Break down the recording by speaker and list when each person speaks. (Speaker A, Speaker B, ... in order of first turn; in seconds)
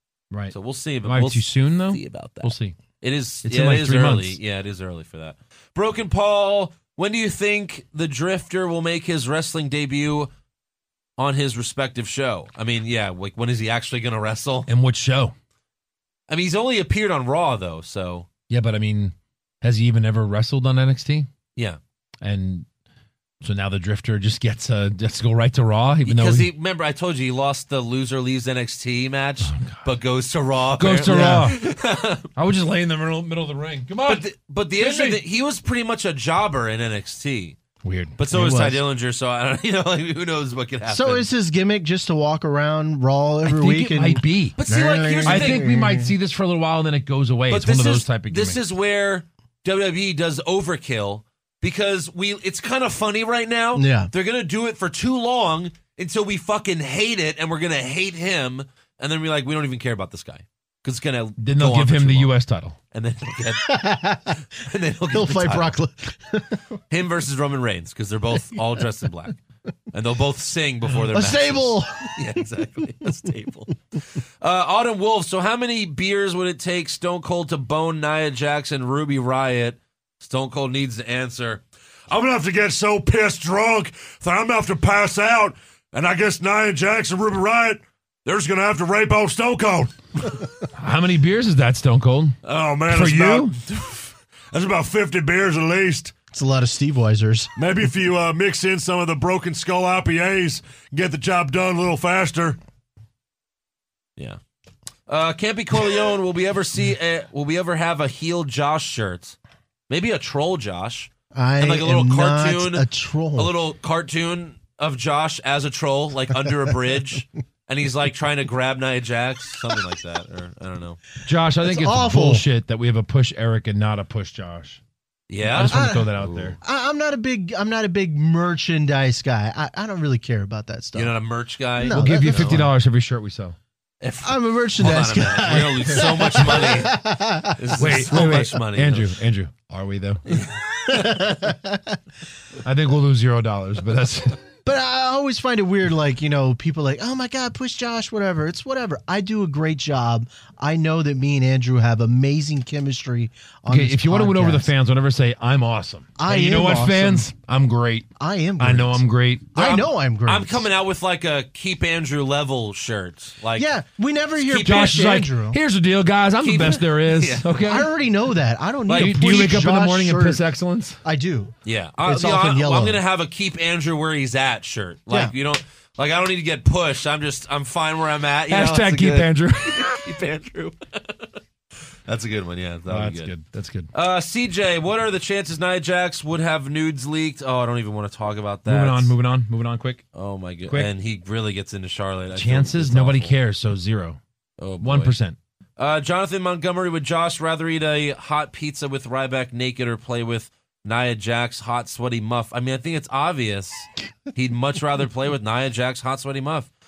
Speaker A: 0.3-2.8, 3.4-4.4, 14.7-15.3, 18.5-21.3, 22.2-22.6, 23.4-26.5, 29.4-29.8, 30.8-31.6, 32.3-35.2, 37.8-38.2, 43.4-44.6, 45.2-48.6, 61.4-62.8, 90.7-92.3, 92.9-93.6, 121.2-124.8, 125.5-126.6, 131.8-133.6, 137.8-140.3, 142.6-144.4, 153.7-159.7, 164.5-167.9, 168.9-171.0, 178.5-180.1, 182.9-183.9, 188.7-190.1, 192.3-194.2, 194.8-195.3
Speaker B: 0.5-10.3, 11.2-14.7, 16.3-18.3, 26.0-32.3, 34.0-37.6, 38.2-41.3, 44.6-45.7, 47.5-62.4, 62.9-63.7, 64.5-65.7, 66.9-81.6, 105.1-109.4, 109.9-112.8, 113.3-121.0, 125.3-126.6, 130.9-132.7, 134.0-139.1, 140.3-141.4, 159.6-163.7, 164.4-165.0, 166.4-167.6, 168.9-169.2, 171.6-181.4, 182.1-183.3, 183.9-189.1, 190.1-193.3, 194.6-195.2, 195.8-206.7
Speaker C: 31.0-31.5, 38.3-38.8, 40.9-46.1, 53.7-54.1, 63.6-64.4, 65.1-66.6, 71.0-72.2, 96.3-97.5, 111.3-113.5, 121.6-122.4, 125.7-131.1, 131.8-132.5, 134.2-137.7, 140.9-142.0, 144.6-154.7, 156.2-157.3, 158.2-160.7, 163.6-165.6, 167.6-170.4, 171.0-173.0
Speaker D: 82.1-90.3, 92.4-96.1, 97.5-102.6